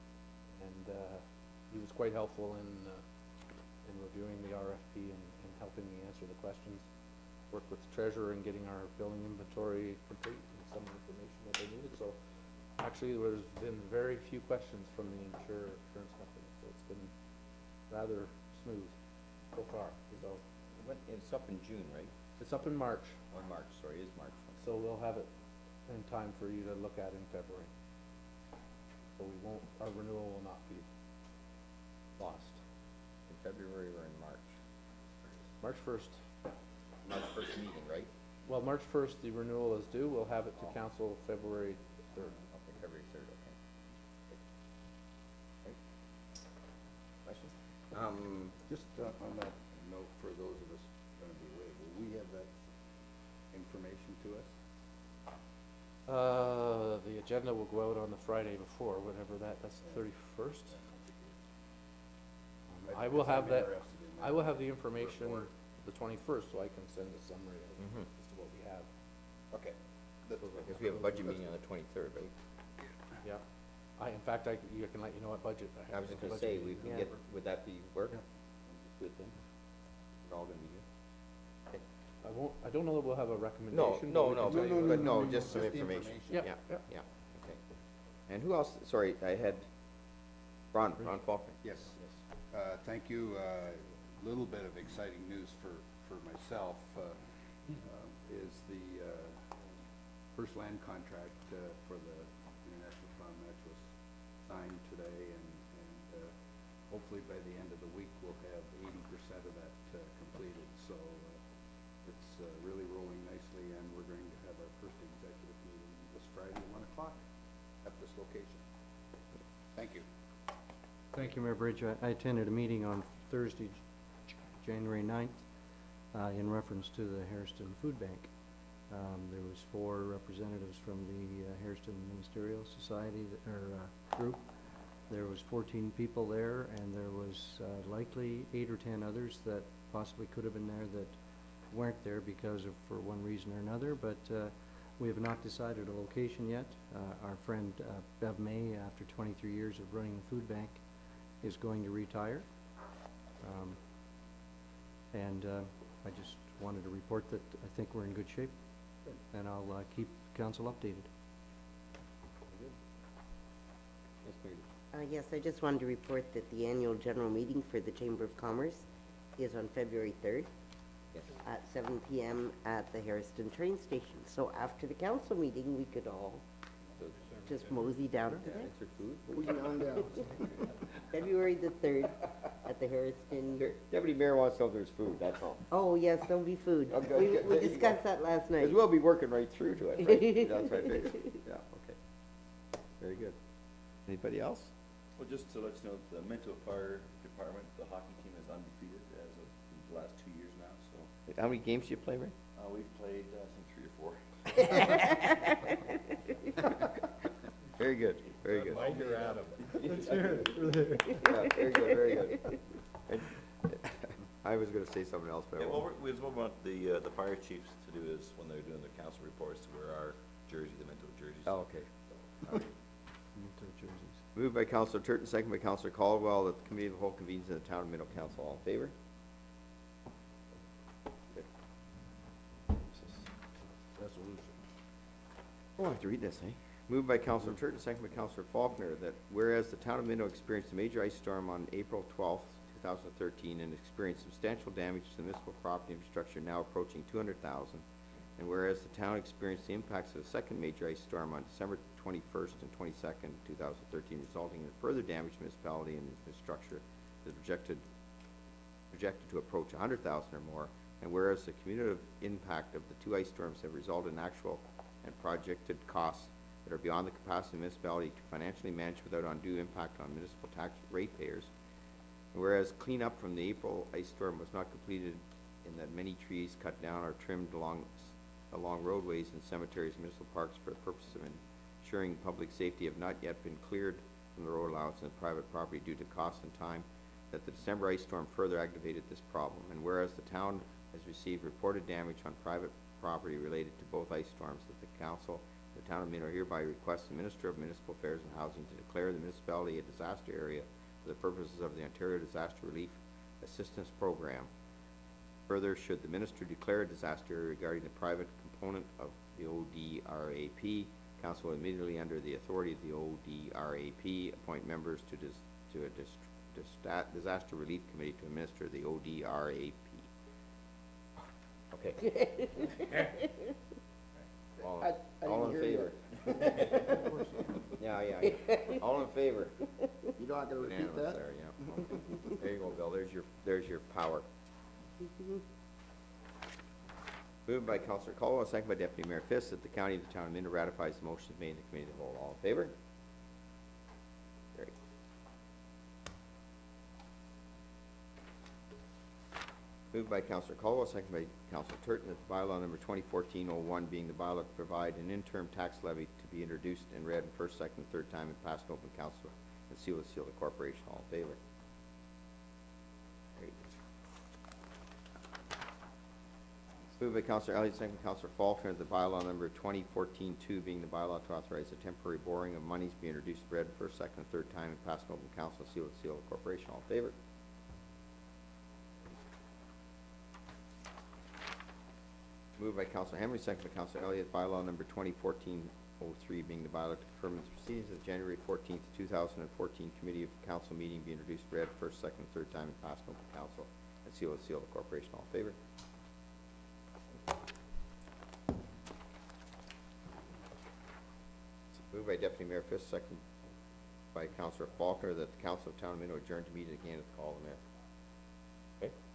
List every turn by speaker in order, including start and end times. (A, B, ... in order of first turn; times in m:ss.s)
0:00.6-0:03.0 A
0:03.9-0:06.9 A
0:07.5-0:12.2 A
0:12.8-0:17.1 A
0:17.9-0:19.0 A
0:19.5-0:20.4 A
0:20.8-0:22.1 B
0:22.4-0:23.2 A
0:23.3-0:24.7 B
0:24.6-0:25.3 A
0:25.9-0:27.7 A
0:29.2-0:30.9 A
0:32.2-0:32.6 A
0:33.3-0:34.5 B
0:35.6-0:36.2 A
0:37.0-0:38.1 B
0:38.5-0:42.4 A
0:42.3-0:43.6 B
0:47.2-0:48.6 B
0:48.7-0:52.7 C
0:53.5-0:54.6 C
0:56.1-1:00.8 A
1:00.7-1:01.4 C
1:02.8-1:05.5 C
1:02.9-1:08.9 A
1:07.8-1:08.1 B
1:10.3-1:11.0 C
1:10.4-1:11.5 A
1:10.7-1:12.3 B
1:14.0-1:17.1 A
1:15.9-1:19.3 B
1:20.3-1:20.8 B
1:22.2-1:25.5 A
1:23.7-1:27.6 B
1:24.4-1:26.5 C
1:28.3-1:29.7 B
1:30.7-1:32.1 B
1:31.6-1:32.0 C
1:32.5-1:39.4 C
1:40.3-1:43.9 C
1:44.5-1:46.3 C
1:46.9-1:51.4 C
1:52.0-1:57.2 C
1:57.8-1:58.6 C
1:59.8-2:00.0 C
2:01.1-2:03.8 D
2:04.6-2:05.4 D
2:06.1-2:08.3 D
2:08.9-2:14.5 D
2:15.1-2:21.2 D
2:21.7-2:30.8 D
2:31.4-2:32.5 D
2:33.4-2:33.8 D
2:35.1-2:38.5 D
2:39.3-2:41.1 D
2:44.2-2:44.6 B
2:44.9-2:50.5 E
2:51.4-2:56.4 E
2:57.4-2:58.7 E
2:58.4-2:59.5 B
2:59.3-3:00.7 F
3:01.1-3:03.7 E
3:03.6-3:05.7 B
3:05.7-3:08.8 E
3:06.9-3:08.0 B
3:08.6-3:12.0 B
3:10.0-3:11.3 E
3:13.0-3:13.4 B
3:14.1-3:14.7 B
3:15.2-3:21.1 G
3:21.3-3:22.3 B
3:22.6-3:25.5 G
3:24.7-3:25.2 E
3:27.8-3:28.9 B
3:28.5-3:30.8 G
3:28.9-3:30.6 C
3:31.1-3:32.5 B
3:33.1-3:35.9 B
3:35.6-3:41.6 G
3:41.5-3:41.9 B
3:43.4-3:44.2 D
3:44.4-3:48.9 B
3:52.7-3:53.3 A
3:53.9-3:54.6 A
3:55.8-4:07.8 B
4:08.4-4:17.8 B
4:18.9-4:31.5 B
4:32.3-5:04.5 B
5:05.5-5:20.1 B
5:21.7-5:22.1 B
5:22.1-5:23.2 E
5:24.6-5:26.0 B
5:24.6-5:27.6 F
5:27.8-5:29.6 B
5:30.2-5:31.2 F
5:30.6-5:34.3 B
5:31.8-5:32.2 F
5:37.5-5:42.8 B
5:49.9-6:01.4 B
6:07.0-6:17.2 B
6:22.6-6:35.6 B
6:41.8-6:43.2 B
6:44.1-6:47.6 B